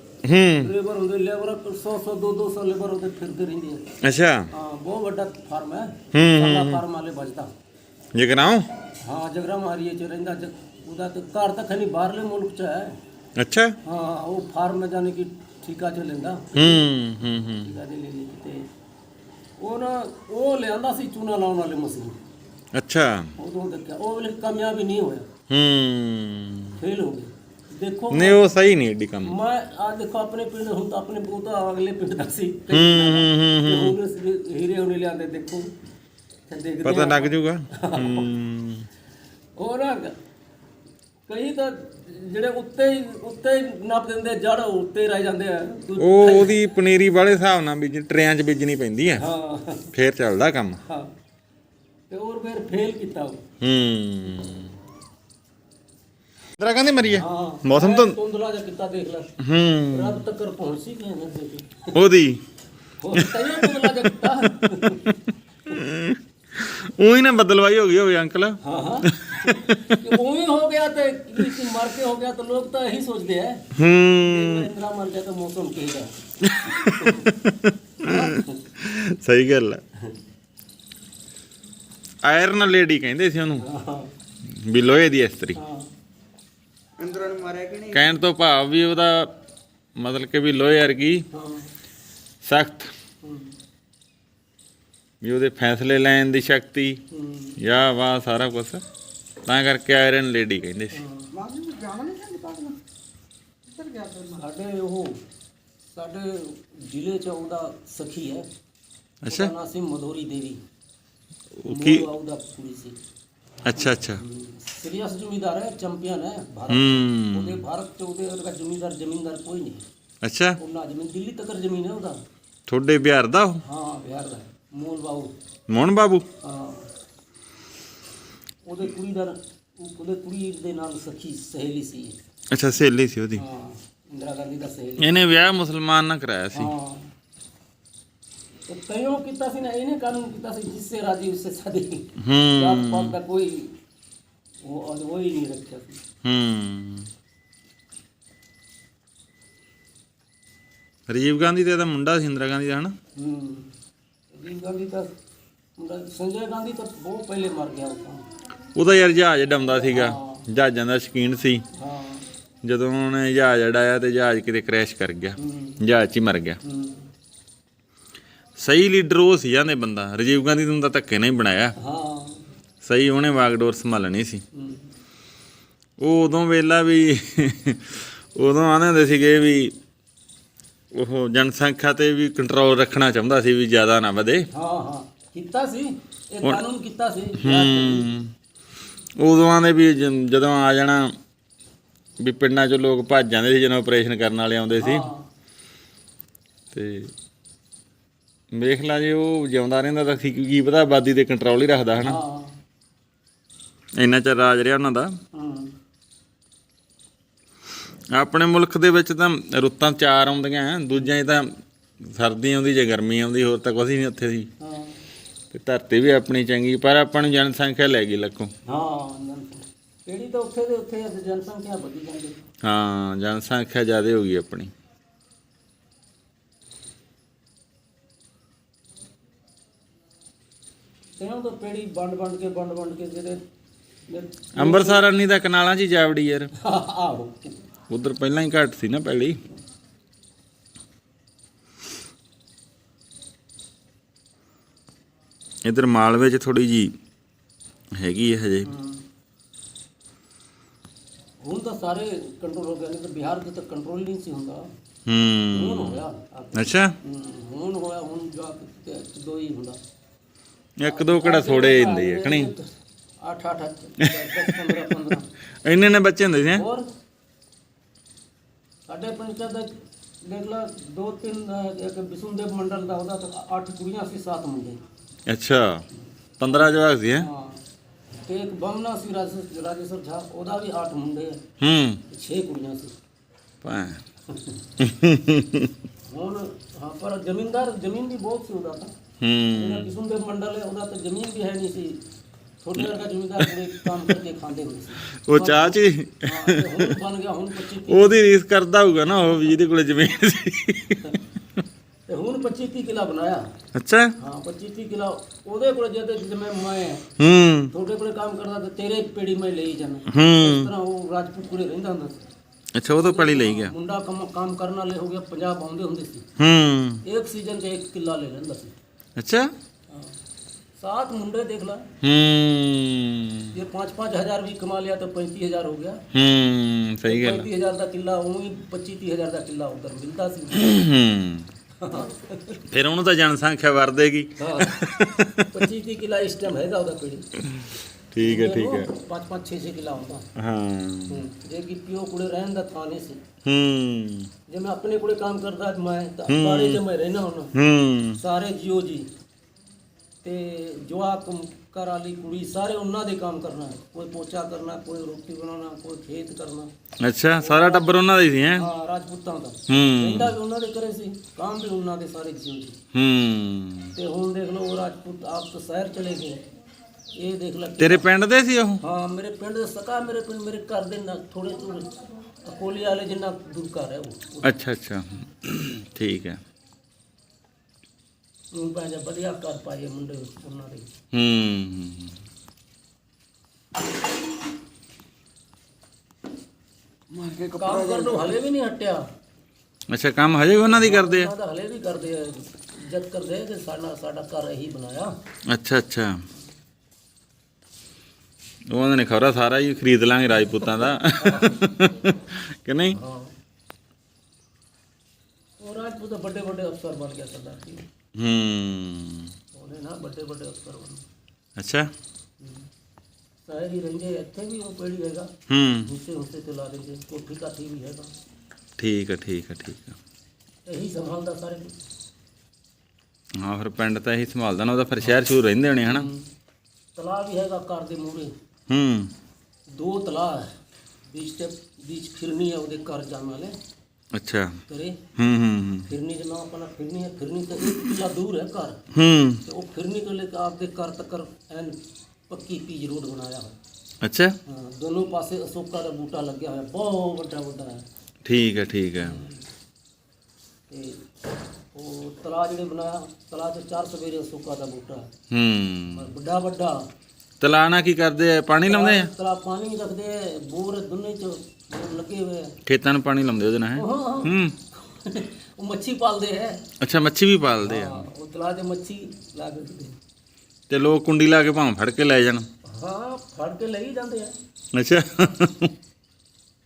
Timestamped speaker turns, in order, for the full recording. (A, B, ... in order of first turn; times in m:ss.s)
0:00.2-0:00.7 A
0:00.6-0:03.8 B
0:04.0-0:04.5 A
0:04.5-0:07.5 B
0:06.1-0:06.8 A
0:08.2-0:08.7 A
0:09.0-0:13.0 B
0:13.4-0:13.8 A
0:13.8-0:16.9 B
0:16.5-0:17.7 A
0:17.6-0:18.7 B
0:19.6-0:22.2 B
0:22.7-0:23.3 A
0:23.4-0:25.3 B
0:25.5-0:26.8 A
0:26.8-0:28.6 B
0:28.1-0:29.4 A
0:29.2-0:35.7 B
0:32.7-0:34.0 A
0:36.5-0:38.3 B
0:36.8-0:38.9 A
0:39.6-0:40.2 B
0:41.3-0:46.6 B
0:46.0-0:49.2 A
0:49.2-0:49.9 B
0:49.9-0:50.8 A
0:50.8-0:51.1 B
0:52.1-0:53.4 B
0:53.6-0:54.7 A
0:56.6-0:58.2 A
0:57.1-0:59.4 B
0:59.4-1:00.2 A
0:59.9-1:02.0 B
1:01.9-1:02.4 A
1:03.0-1:05.2 B
1:03.1-1:05.2 A
1:05.7-1:10.2 A
1:08.6-1:16.1 B
1:13.7-1:14.7 A
1:16.4-1:19.8 A
1:16.8-1:17.3 B
1:18.0-1:18.6 B
1:22.2-1:23.6 A
1:23.6-1:24.1 B
1:24.5-1:25.6 A
1:25.6-1:25.9 B
1:27.0-1:27.9 C
1:27.8-1:29.3 A
1:30.0-1:31.3 A
1:31.3-1:31.7 B
1:32.4-1:32.9 A
1:33.2-1:33.5 B
1:35.2-1:37.0 A
1:37.1-1:37.6 B
1:37.6-1:38.8 A
1:39.5-1:41.0 A
1:40.9-1:41.4 B
1:41.4-1:42.8 C
1:43.7-1:44.3 C
1:44.2-1:45.2 B
1:45.9-1:48.5 B
1:49.2-1:49.5 A
1:49.3-1:50.6 B
1:51.6-1:52.1 A
1:51.7-1:53.0 B
1:53.6-1:54.2 A
1:53.7-1:59.8 B
1:56.7-1:57.6 A
2:00.2-2:00.6 A
2:00.6-2:02.2 B
2:02.7-2:03.6 A
2:03.6-2:05.3 B
2:05.7-2:06.3 A
2:06.4-2:06.9 B
2:08.7-2:12.2 B
2:12.5-2:13.4 A
2:13.4-2:15.3 B
2:15.0-2:16.7 A
2:16.5-2:17.1 B
2:18.7-2:23.8 B
2:22.2-2:23.2 A
2:24.6-2:26.0 B
2:26.2-2:27.1 A
2:31.1-2:33.0 A
2:33.2-2:33.7 B
2:34.3-2:35.1 B
2:35.8-2:38.3 B
2:38.8-2:41.6 A
2:39.7-2:40.4 B
2:41.7-2:42.3 B
2:42.6-2:46.6 A
2:45.4-2:45.8 B
2:46.6-2:47.1 B
2:48.6-2:51.8 A
2:51.8-2:52.5 B
2:52.8-2:54.4 A
2:54.5-2:54.9 B
2:56.0-2:59.8 A
3:00.9-3:04.5 A
3:04.5-3:08.1 B
3:07.4-3:08.3 A
3:09.2-3:11.2 A
3:12.2-3:15.1 A
3:14.8-3:15.3 B
3:16.7-3:17.1 A
3:18.5-3:22.2 A
3:22.0-3:22.6 B
3:24.0-3:25.2 A
3:25.3-3:25.7 B
3:28.1-3:34.5 A
3:34.6-3:35.0 B
3:35.5-3:38.5 A
3:38.7-3:42.4 B
3:42.6-3:44.7 A
3:51.2-3:53.4 B
3:54.1-3:55.2 B
3:54.6-3:56.5 A
3:56.6-3:57.6 B
3:57.9-3:59.4 A
4:05.6-4:06.9 A
4:08.0-4:08.7 A
4:08.6-4:09.1 B
4:11.4-4:14.7 B
4:15.1-4:17.0 A
4:15.5-4:19.8 B
4:20.8-4:22.5 A
4:20.8-4:22.7 B
4:23.2-4:25.3 B
4:24.0-4:26.7 A
4:26.5-4:26.9 B
4:28.9-4:29.7 B
4:30.2-4:34.8 B
4:35.3-4:35.8 A
4:36.4-4:37.3 A
4:36.5-4:37.6 B
4:38.3-4:41.4 B
4:41.6-4:42.0 A
4:42.1-4:42.9 B
4:43.6-4:44.0 A
4:44.3-4:44.6 B
4:44.8-4:45.7 A
4:46.1-4:48.9 B
4:49.2-4:49.9 A
4:49.5-4:52.0 B
4:52.6-4:58.2 B
4:55.1-4:57.0 A
4:57.8-5:01.2 A
4:59.0-4:59.6 B
5:02.1-5:03.5 B
5:03.7-5:04.2 A
5:04.2-5:07.1 B
5:07.2-5:07.7 A
5:07.7-5:12.3 B
5:10.1-5:10.7 A
5:12.8-5:13.7 A
5:13.0-5:16.3 B
5:16.4-5:17.0 A
5:17.0-5:18.7 B
5:19.2-5:19.5 A
5:19.9-5:20.2 B
5:20.8-5:21.9 B
5:22.0-5:23.6 A
5:23.5-5:26.0 B
5:26.1-5:27.5 A
5:27.1-5:30.8 B
5:30.5-5:31.5 A
5:31.8-5:32.6 B
5:32.7-5:35.6 A
5:34.4-5:37.3 B
5:37.4-5:38.9 A
5:38.2-5:40.3 B
5:40.4-5:41.2 A
5:41.1-5:43.2 B
5:43.4-5:44.3 A
5:44.5-5:47.5 B
5:46.3-5:46.8 A
5:47.6-5:48.2 A
5:48.2-5:49.1 B
5:50.2-5:56.7 B
5:57.0-5:58.7 A
5:57.4-5:57.9 B
5:58.5-6:02.8 B
5:59.7-6:00.4 A
6:02.9-6:04.0 A
6:04.0-6:06.4 B
6:07.2-6:08.1 B
6:07.8-6:08.8 A
6:08.8-6:14.5 B
6:14.4-6:16.4 A
6:18.5-6:20.9 B
6:21.1-6:22.2 A
6:27.1-6:27.5 C
6:27.5-6:29.0 B
6:29.9-6:31.3 A
6:30.7-6:35.1 B
6:35.5-6:36.2 A
6:38.7-6:43.0 A
6:40.7-6:41.6 B
6:42.9-6:43.4 B
6:45.6-6:47.9 B
6:48.2-6:49.3 A
6:49.5-6:51.0 B
6:51.6-6:51.9 A
6:52.4-6:52.7 B
6:53.4-6:55.3 B
6:55.5-6:55.9 A
6:55.9-6:58.1 B
6:58.8-7:00.0 A
7:00.7-7:01.8 B
7:03.4-7:06.1 A
7:05.8-7:06.3 B
7:07.0-7:08.3 B
7:08.7-7:09.1 A
7:09.7-7:10.5 B
7:11.1-7:13.6 B
7:14.1-7:14.6 A
7:14.7-7:15.1 B
7:15.2-7:15.9 A
7:15.9-7:18.8 B
7:18.9-7:19.4 A
7:19.4-7:23.6 B
7:24.0-7:24.4 A
7:24.5-7:27.8 B
7:28.2-7:29.2 A
7:29.0-7:29.4 B
7:30.7-7:31.1 B
7:31.7-7:35.1 B
7:35.3-7:36.1 A
7:35.9-7:36.9 B
7:37.4-7:39.1 A
7:38.6-7:42.6 B
7:42.7-7:44.6 A
7:43.8-7:46.6 B
7:46.8-7:48.1 A
7:47.6-7:50.0 B
7:50.7-7:52.5 A
7:52.7-7:54.3 B
7:54.7-7:55.7 A